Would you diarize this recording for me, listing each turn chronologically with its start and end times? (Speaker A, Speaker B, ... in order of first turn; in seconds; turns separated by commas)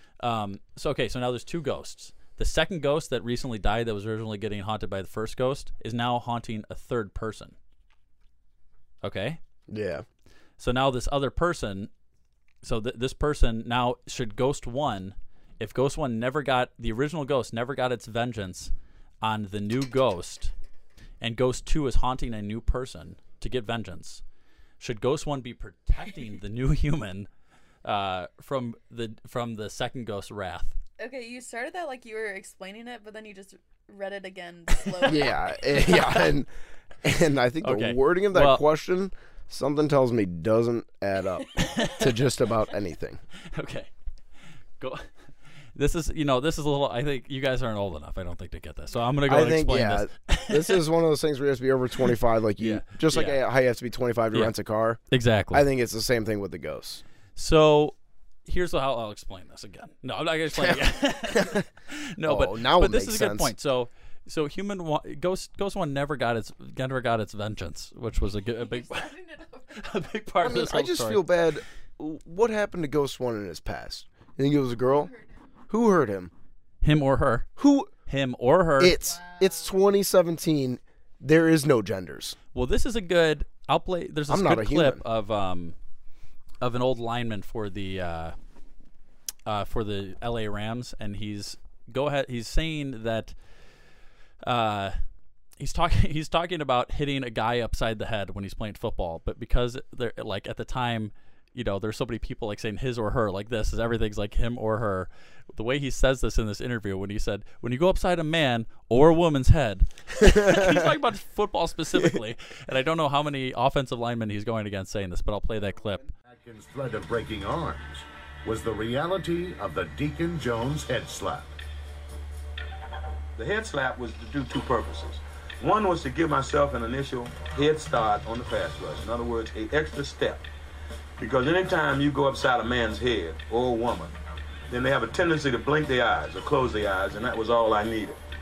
Speaker A: 0.2-7.6, Speaker A: 9.0-9.4, Speaker B: 9.7-10.1, Speaker A: 10.6-11.9, Speaker A: 12.6-18.7, Speaker A: 19.2-20.5, Speaker A: 21.2-24.2, Speaker A: 24.8-27.3, Speaker A: 27.8-30.8, Speaker C: 31.0-36.1, Speaker B: 35.0-36.5, Speaker B: 37.0-43.2, Speaker A: 37.6-38.6, Speaker A: 41.6-42.1, Speaker A: 43.5-43.9, Speaker A: 44.8-45.1, Speaker A: 45.7-50.8, Speaker B: 49.3-55.0, Speaker A: 52.6-53.4, Speaker A: 55.1-55.7, Speaker B: 55.5-57.0, Speaker A: 57.4-69.1, Speaker B: 60.5-61.7, Speaker B: 62.2-63.5, Speaker C: 68.4-70.1, Speaker A: 69.8-71.2, Speaker B: 70.4-75.1, Speaker C: 74.9-75.4, Speaker B: 75.7-76.3, Speaker A: 76.8-77.5, Speaker B: 77.6-77.9, Speaker A: 78.1-79.0, Speaker B: 78.8-82.4, Speaker C: 79.0-79.8, Speaker A: 82.5-85.8, Speaker B: 84.3-85.0, Speaker A: 86.6-88.4, Speaker A: 89.5-93.4, Speaker A: 94.4-95.0, Speaker A: 95.6-116.1, Speaker B: 110.2-110.9, Speaker D: 116.2-121.5, Speaker E: 123.4-130.4, Speaker E: 131.2-134.1, Speaker E: 134.7-138.2